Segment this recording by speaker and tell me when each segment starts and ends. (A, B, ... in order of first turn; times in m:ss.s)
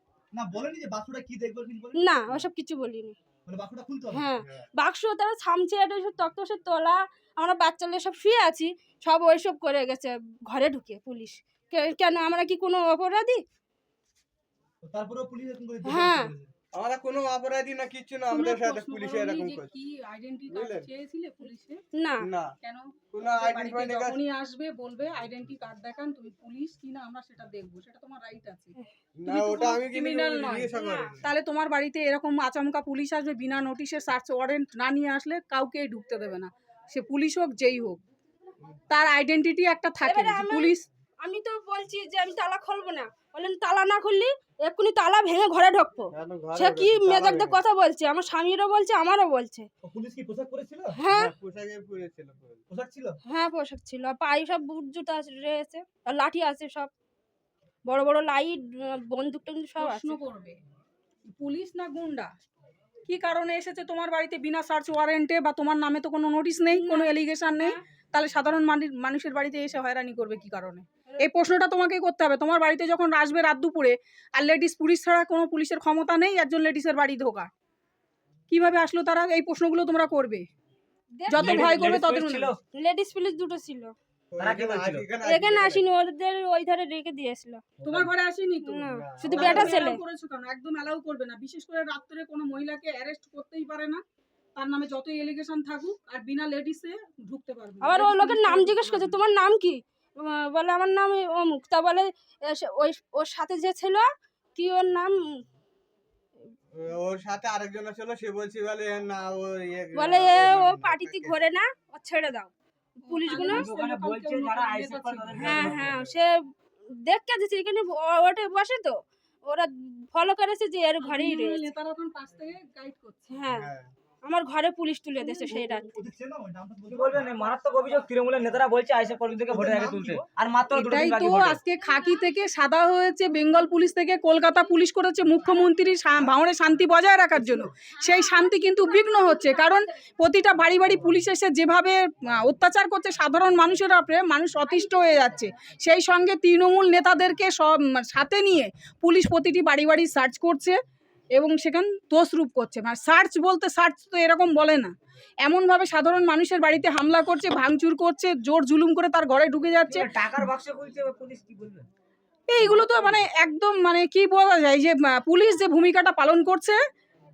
0:00.3-0:02.4 A
0:02.0-0:03.2 B
0:03.5-0:04.6 A
0:04.1-0:13.4 B
0:14.8-0:16.5 A
0:15.9-0:16.3 B
0:16.7-0:19.7 C
0:18.3-0:21.8 D
0:20.5-0:20.9 C
0:22.0-0:22.2 B
0:22.2-0:22.5 C
0:22.6-0:28.7 D
0:23.1-0:24.2 C
0:29.2-0:31.3 C
0:29.3-0:38.0 D
0:30.7-0:31.1 B
0:38.9-0:40.9 D
0:40.0-0:40.7 B
0:41.2-0:49.7 B
0:46.1-0:47.6 C
0:49.8-0:51.0 A
0:51.0-0:51.3 B
0:51.1-0:52.6 C
0:52.7-0:53.2 A
0:53.3-0:56.9 B
0:57.9-1:00.2 B
0:59.8-1:00.6 D
1:01.3-1:02.3 D
1:03.1-1:17.5 D
1:06.8-1:07.8 B
1:18.5-1:20.5 D
1:21.2-1:21.5 B
1:21.3-1:22.6 D
1:21.4-1:22.6 E
1:22.8-1:23.9 B
1:24.3-1:25.8 C
1:24.4-1:25.1 E
1:25.2-1:27.6 B
1:27.9-1:34.0 D
1:28.6-1:30.0 B
1:28.9-1:29.8 C
1:34.6-1:39.2 D
1:37.8-1:44.0 B
1:44.6-1:45.3 B
1:46.7-1:51.5 C
1:49.9-1:52.5 B
1:53.0-1:55.8 D
1:53.1-1:53.7 B
1:53.4-1:55.9 E
1:55.4-1:56.0 C
1:55.4-1:56.3 B
1:57.0-2:01.7 B
2:01.0-2:03.3 D
2:03.3-2:05.9 B
2:03.5-2:03.9 C
2:05.2-2:05.5 D
2:05.4-2:07.3 A
2:06.9-2:11.6 E
2:09.5-2:10.3 A
2:10.7-2:30.8 D
2:31.4-2:40.5 D
2:39.9-2:41.9 E
2:42.5-2:46.8 D